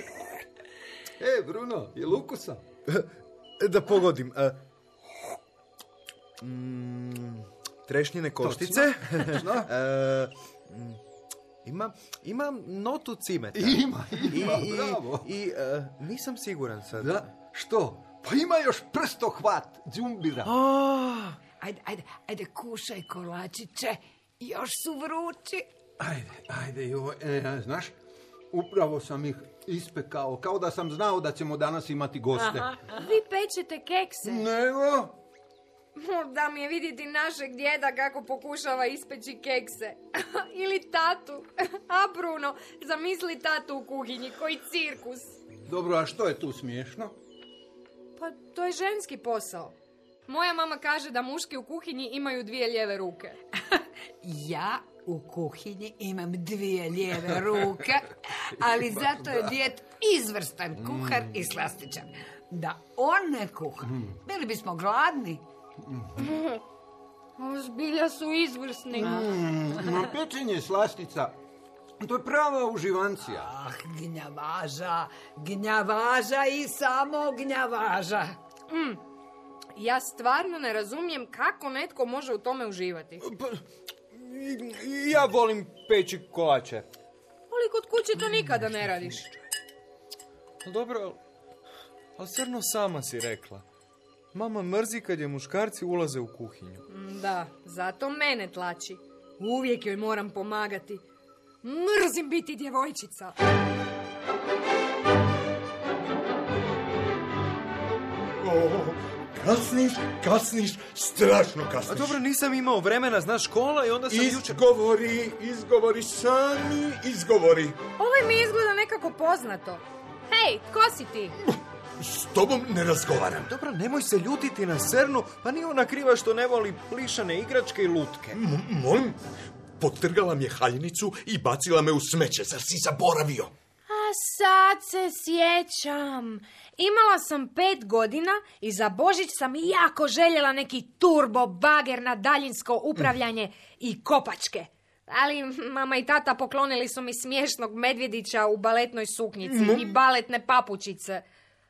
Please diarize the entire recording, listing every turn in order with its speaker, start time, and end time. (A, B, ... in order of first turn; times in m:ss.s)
0:01.2-0:02.6 A
0:02.9-0:04.6 B
0:06.4-0:11.0 B
0:08.4-0:09.7 A
0:11.6-0:17.3 B
0:13.5-0:15.3 A
0:17.0-0:20.5 A
0:20.4-0:21.4 B
0:21.6-0:25.7 C
0:26.0-0:28.0 A
0:28.5-0:32.8 A
0:32.5-0:34.5 D
0:34.2-0:35.2 A
0:36.0-0:45.3 D
0:45.6-0:47.2 A
0:48.2-0:49.7 D
0:50.3-0:53.4 D
0:53.7-1:05.4 C
0:59.1-0:59.4 A
1:00.8-1:01.3 A
1:05.8-1:06.2 A
1:06.3-1:06.5 D
1:07.4-1:09.3 D
1:09.0-1:11.4 A
1:12.0-1:13.5 A
1:13.3-1:18.4 C
1:18.7-1:19.0 D
1:19.8-1:23.2 D
1:23.2-1:26.9 B
1:27.5-1:29.3 D
1:30.6-1:31.2 B
1:32.2-1:33.6 B
1:34.3-1:36.8 B
1:36.9-1:41.0 D
1:41.6-1:43.4 D
1:48.4-1:52.2 E
1:51.9-1:54.6 B
1:54.1-1:57.8 E
1:58.0-2:01.4 D
2:02.0-2:03.5 E
2:03.5-2:08.4 B
2:08.3-2:09.2 E
2:09.8-2:13.5 E
2:13.9-2:31.2 D
2:29.5-2:29.8 E